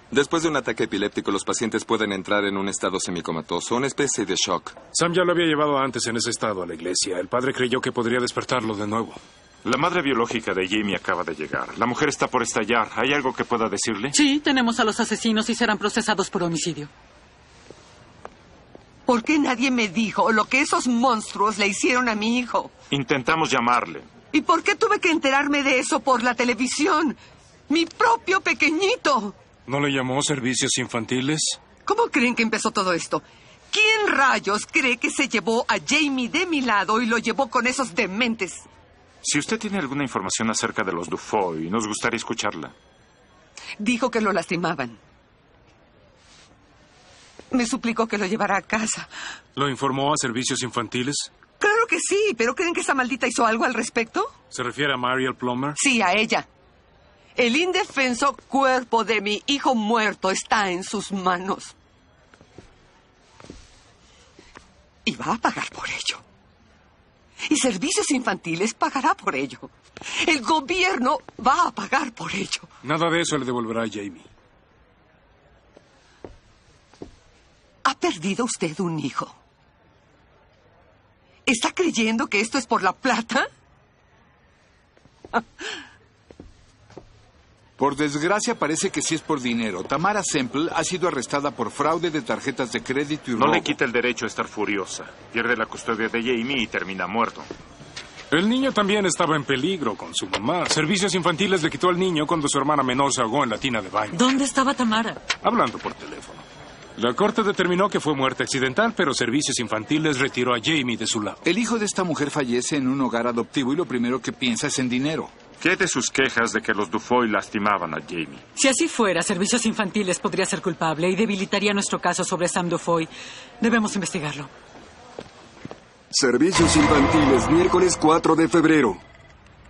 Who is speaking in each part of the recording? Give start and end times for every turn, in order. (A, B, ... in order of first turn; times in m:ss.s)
0:00.1-0:04.8 A
0:04.9-0:09.2 B
0:09.6-0:14.2 C
0:14.1-0:16.9 D
0:19.1-0:22.7 E
0:22.9-0:24.1 C
0:24.3-0:27.2 E
0:27.7-0:29.4 E
0:29.7-0:31.6 B
0:31.8-0:38.7 E
0:39.2-0:42.7 C
0:43.8-0:45.0 E
0:47.5-0:49.1 E
0:49.6-0:51.3 B
0:51.6-0:54.4 E
0:54.5-0:55.8 B
0:55.8-0:56.5 E
0:57.4-1:01.7 E
1:05.0-1:06.2 E
1:07.4-1:12.7 E
1:12.8-1:14.3 B
1:17.8-1:19.4 E
1:21.5-1:23.5 E
1:27.8-1:33.8 F
1:33.4-1:37.5 C
1:38.3-1:44.2 B
1:44.1-1:45.2 D
1:45.4-1:46.4 B
1:47.0-1:51.4 B
1:51.4-1:55.3 F
1:55.6-1:58.4 C
1:58.6-2:04.5 D
2:06.1-2:09.0 G